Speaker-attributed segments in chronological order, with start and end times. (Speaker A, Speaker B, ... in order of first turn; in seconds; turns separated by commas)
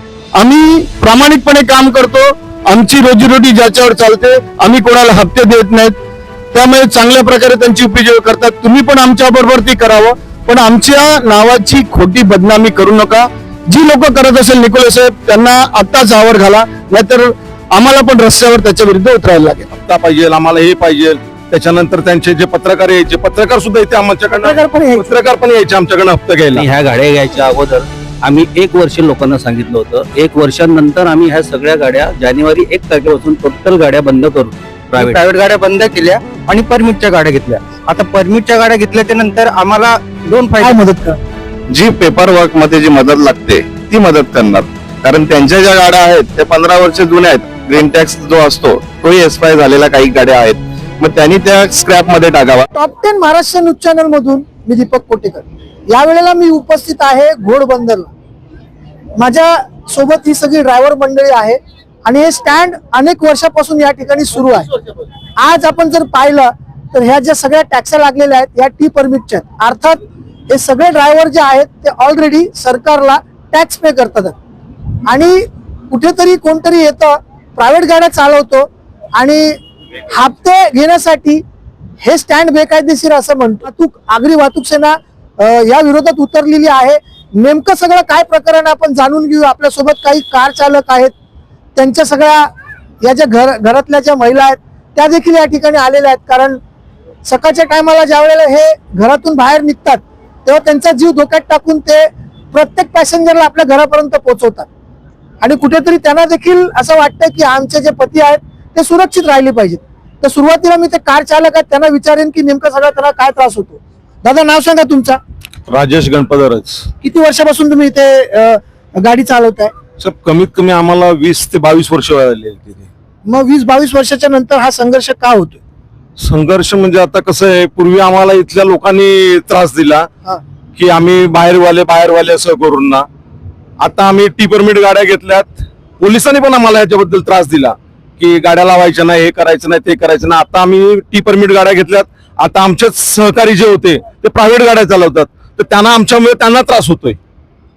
Speaker A: 0.3-6.0, Speaker A: 6.5-19.7, Speaker B: 19.8-26.6, Speaker C: 24.3-25.2, Speaker D: 26.5-35.2, Speaker E: 35.0-40.8, Speaker C: 40.6-41.2, Speaker F: 41.7-52.7, Speaker C: 52.7-58.1, Speaker C: 59.2-64.7, Speaker C: 65.4-74.4, Speaker C: 75.1-81.4, Speaker C: 82.0-91.1, Speaker C: 91.8-96.6, Speaker C: 97.2-104.7, Speaker C: 105.4-115.2, Speaker B: 115.7-116.9, Speaker C: 117.0-119.7, Speaker B: 120.0-122.9, Speaker C: 123.2-125.6, Speaker B: 126.2-130.1, Speaker B: 130.8-133.1, Speaker B: 133.8-147.2